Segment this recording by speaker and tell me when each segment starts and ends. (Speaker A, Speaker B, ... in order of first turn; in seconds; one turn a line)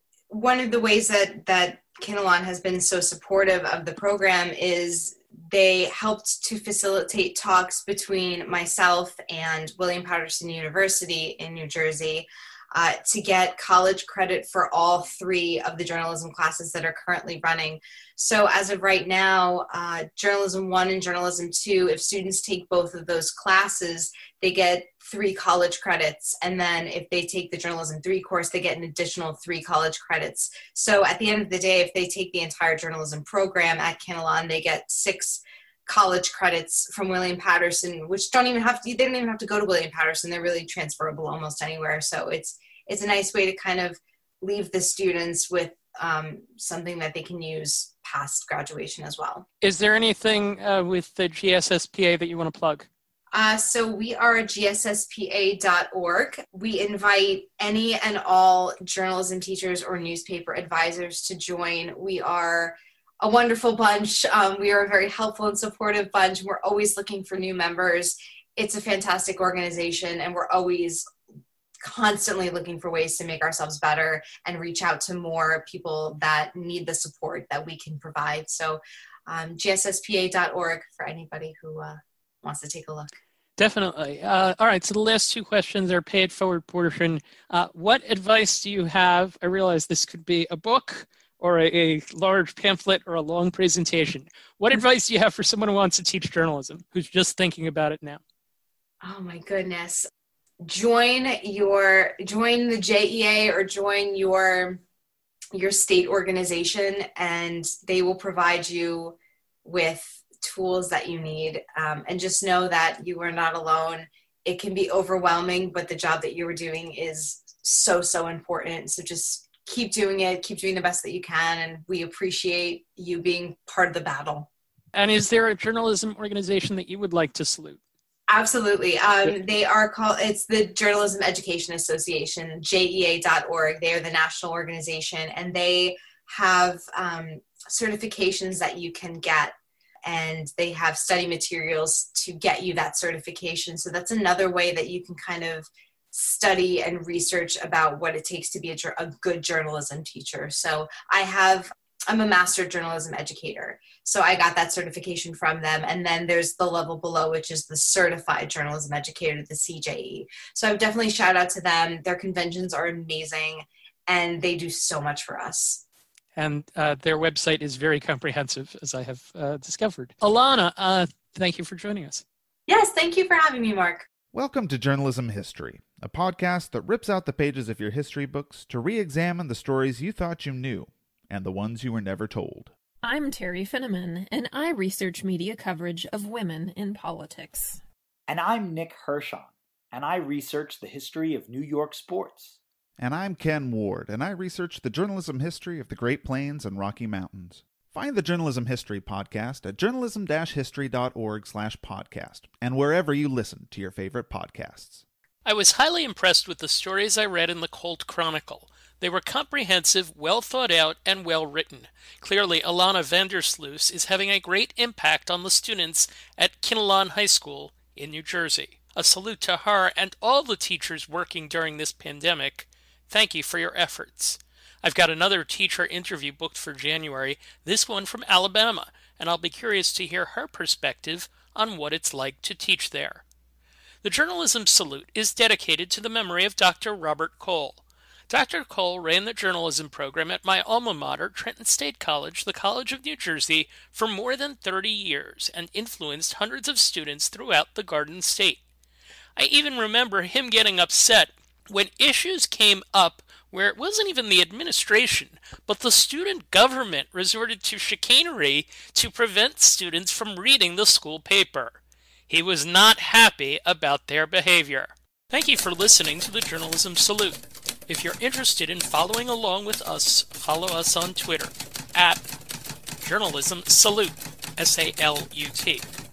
Speaker A: 0.3-49.5
Speaker B: 49.6-52.9
Speaker A: 53.3-71.1
Speaker A: 71.8-83.2
Speaker B: 83.6-98.2
Speaker A: 99.0-100.1
Speaker A: 100.6-104.8
Speaker A: 105.5-124.5
Speaker B: 124.9-127.8
Speaker A: 128.3-165.8
Speaker B: 166.4-172.2
Speaker A: 172.7-174.1
Speaker C: 174.3-182.7
Speaker D: 183.0-187.8
Speaker E: 188.3-192.6
Speaker C: 193.0-205.0
Speaker B: 205.4-233.2
Speaker B: 234.0-248.6
Speaker B: 249.4-272.2
Speaker B: 273.0-275.9